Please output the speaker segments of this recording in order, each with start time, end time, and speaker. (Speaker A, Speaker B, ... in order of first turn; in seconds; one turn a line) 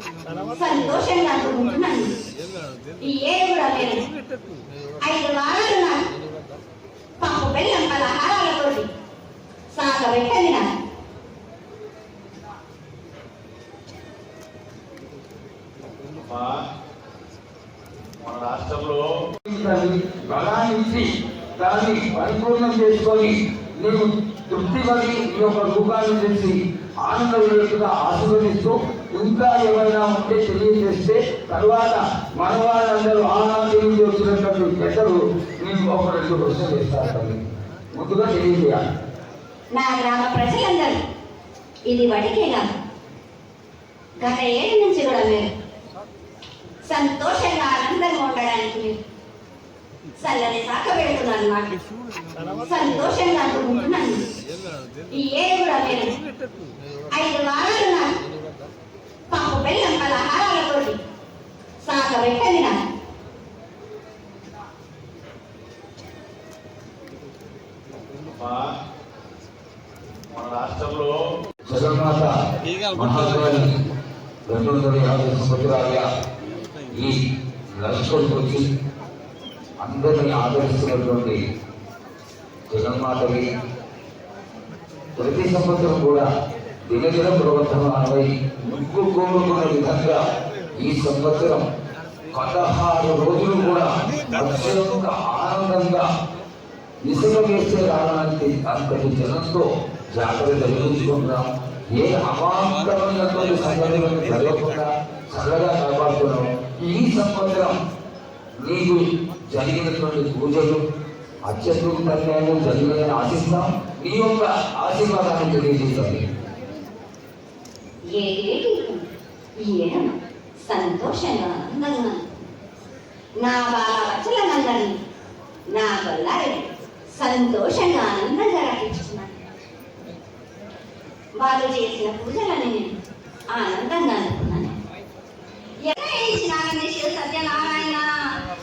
Speaker A: 0.2-2.2
Speaker A: 3.0-4.0
Speaker A: 5.0-6.1
Speaker A: 7.2-8.9
Speaker A: 9.7-10.7
Speaker B: 16.0-16.6
Speaker B: 18.2-19.1
Speaker C: 19.4-37.4
Speaker C: 37.9-38.8
Speaker A: 39.8-41.0
Speaker A: 41.9-42.6
Speaker A: 44.2-45.5
Speaker A: 46.9-49.0
Speaker A: 50.2-51.7
Speaker A: 52.4-54.3
Speaker A: 55.1-58.2
Speaker A: 59.3-61.0
Speaker A: 61.8-62.8
Speaker B: 68.1-68.7
Speaker B: 70.3-71.2
Speaker C: 71.7-72.3
Speaker C: 72.9-73.7
Speaker C: 74.5-76.1
Speaker C: 77.8-78.7
Speaker C: 79.8-81.4
Speaker C: 82.7-83.5
Speaker C: 85.2-86.3
Speaker C: 86.9-90.2
Speaker C: 90.8-91.7
Speaker C: 92.3-96.1
Speaker C: 97.0-107.7
Speaker C: 108.6-110.8
Speaker C: 111.5-116.2
Speaker A: 118.1-122.4
Speaker A: 123.4-125.0
Speaker A: 125.7-129.4
Speaker A: 131.4-132.9
Speaker A: 133.5-134.8
Speaker A: 135.8-138.4